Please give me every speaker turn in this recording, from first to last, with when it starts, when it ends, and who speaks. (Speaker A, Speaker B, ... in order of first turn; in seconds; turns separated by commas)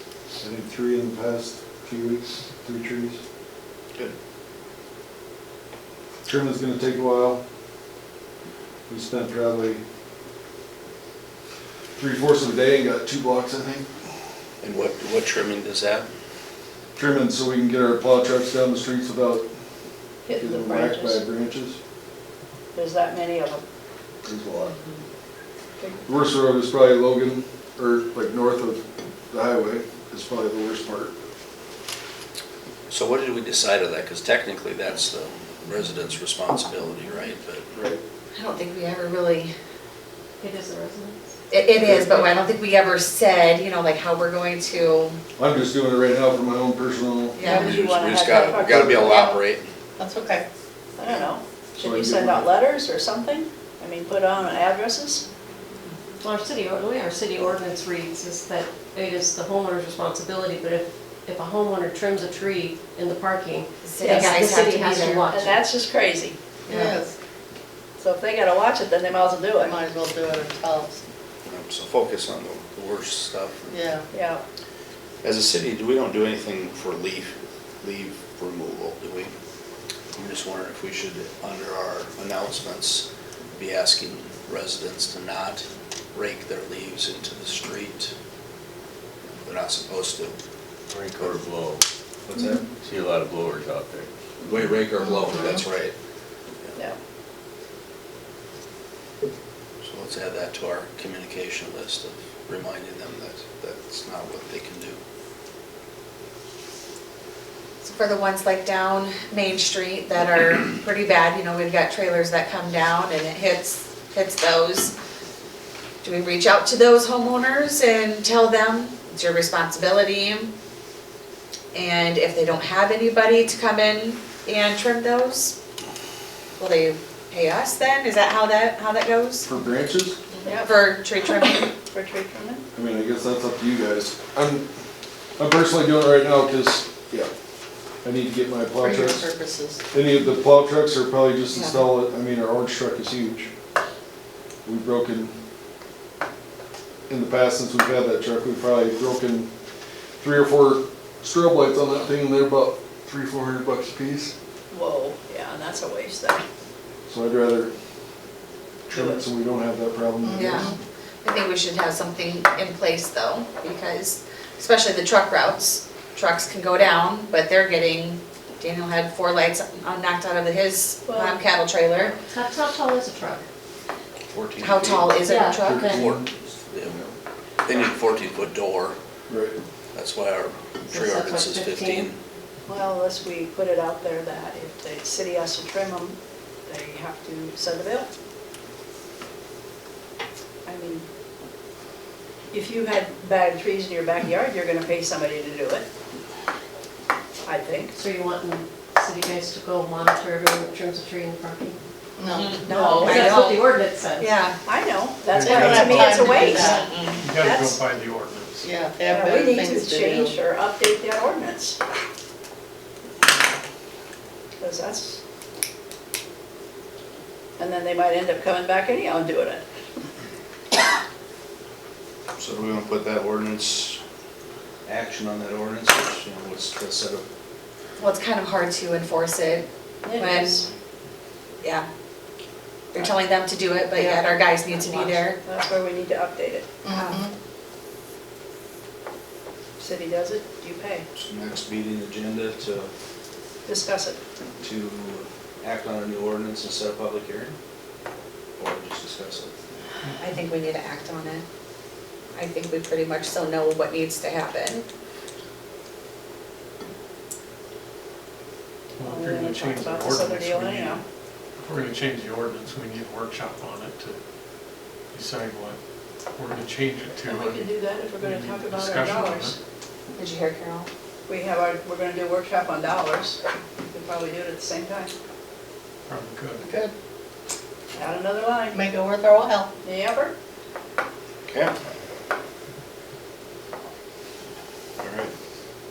Speaker A: 0.4-3.2, Speaker A: 6.2-7.4, Speaker A: 8.9-9.8, Speaker A: 12.0-13.9, Speaker B: 14.6-16.1, Speaker A: 16.9-19.4, Speaker C: 20.2-21.2, Speaker A: 20.4-21.8, Speaker C: 22.7-23.6, Speaker A: 24.2-24.8, Speaker C: 25.8-26.0, Speaker A: 26.1-31.1, Speaker B: 32.9-37.7, Speaker A: 37.7-38.0, Speaker D: 38.3-39.5, Speaker E: 40.4-41.2, Speaker D: 41.5-45.2, Speaker A: 41.8-42.4, Speaker A: 45.4-47.4, Speaker D: 47.4-47.7, Speaker B: 47.5-49.7, Speaker C: 47.5-49.3, Speaker F: 48.3-49.4, Speaker A: 48.6-48.9, Speaker F: 50.0-50.5, Speaker C: 51.0-55.2, Speaker A: 51.8-52.5, Speaker E: 56.2-65.6, Speaker D: 63.8-65.3, Speaker C: 64.0-64.5, Speaker C: 65.3-66.6, Speaker F: 66.7-67.1, Speaker D: 66.7-67.0, Speaker C: 68.0-69.8, Speaker F: 69.6-71.0, Speaker B: 71.5-73.8, Speaker F: 73.7-74.1, Speaker C: 74.1-74.4, Speaker B: 75.2-79.3, Speaker B: 80.2-88.1, Speaker B: 89.3-90.3, Speaker G: 90.9-91.8, Speaker B: 92.3-92.7, Speaker G: 92.7-94.1, Speaker B: 94.4-95.9, Speaker B: 99.8-105.0, Speaker D: 107.8-114.9, Speaker D: 116.0-120.5, Speaker D: 121.7-125.5, Speaker D: 126.6-129.5, Speaker A: 129.4-130.2, Speaker C: 130.4-130.8, Speaker D: 130.6-131.7, Speaker C: 131.9-132.6, Speaker A: 132.7-134.7, Speaker A: 135.4-137.3, Speaker A: 138.0-139.3, Speaker F: 138.8-139.8, Speaker A: 139.9-143.5, Speaker D: 141.5-141.8, Speaker A: 144.6-145.3, Speaker A: 147.1-149.5, Speaker A: 150.2-154.3, Speaker C: 154.7-156.4, Speaker A: 157.1-157.7, Speaker A: 158.9-160.7, Speaker C: 158.9-159.2, Speaker F: 160.2-160.7, Speaker D: 160.3-172.2, Speaker C: 171.1-171.4, Speaker E: 172.2-173.4, Speaker B: 174.3-175.2, Speaker D: 174.6-176.0, Speaker E: 175.2-176.0, Speaker A: 175.6-176.3, Speaker B: 175.9-176.9, Speaker A: 176.8-177.1, Speaker B: 177.6-178.9, Speaker A: 179.3-179.6, Speaker B: 179.9-182.2, Speaker E: 180.9-182.1, Speaker C: 182.7-188.1, Speaker C: 190.7-191.1, Speaker C: 192.5-195.8, Speaker C: 197.4-198.0, Speaker E: 197.9-201.8, Speaker F: 202.2-202.6, Speaker D: 202.2-203.6, Speaker E: 202.6-204.3, Speaker D: 204.2-204.6, Speaker C: 204.6-207.8, Speaker H: 205.3-206.4, Speaker F: 205.4-206.8, Speaker E: 206.3-206.8, Speaker D: 206.7-207.3, Speaker H: 207.1-208.7, Speaker F: 208.6-210.3, Speaker C: 209.1-211.8, Speaker E: 209.4-210.2, Speaker C: 214.6-215.2, Speaker C: 217.6-219.7, Speaker B: 222.4-224.0, Speaker B: 224.8-227.2, Speaker D: 228.0-230.5, Speaker C: 230.0-230.7, Speaker D: 232.9-235.4, Speaker C: 233.9-236.8, Speaker F: 236.8-237.3, Speaker D: 236.9-237.3, Speaker C: 239.8-241.0, Speaker B: 241.1-242.9, Speaker C: 243.7-244.2, Speaker B: 244.6-247.5, Speaker B: 248.6-249.5, Speaker D: 250.2-251.4, Speaker D: 252.3-254.8, Speaker H: 259.0-261.0, Speaker C: 259.0-261.0, Speaker H: 261.6-264.2, Speaker H: 265.1-265.8, Speaker H: 266.3-269.6, Speaker C: 267.2-269.5, Speaker D: 270.1-270.9, Speaker C: 271.3-275.1, Speaker H: 276.1-276.6, Speaker F: 276.6-276.9, Speaker C: 277.9-278.8, Speaker F: 278.7-279.7, Speaker C: 279.8-280.3, Speaker B: 281.5-281.7, Speaker B: 285.0-285.3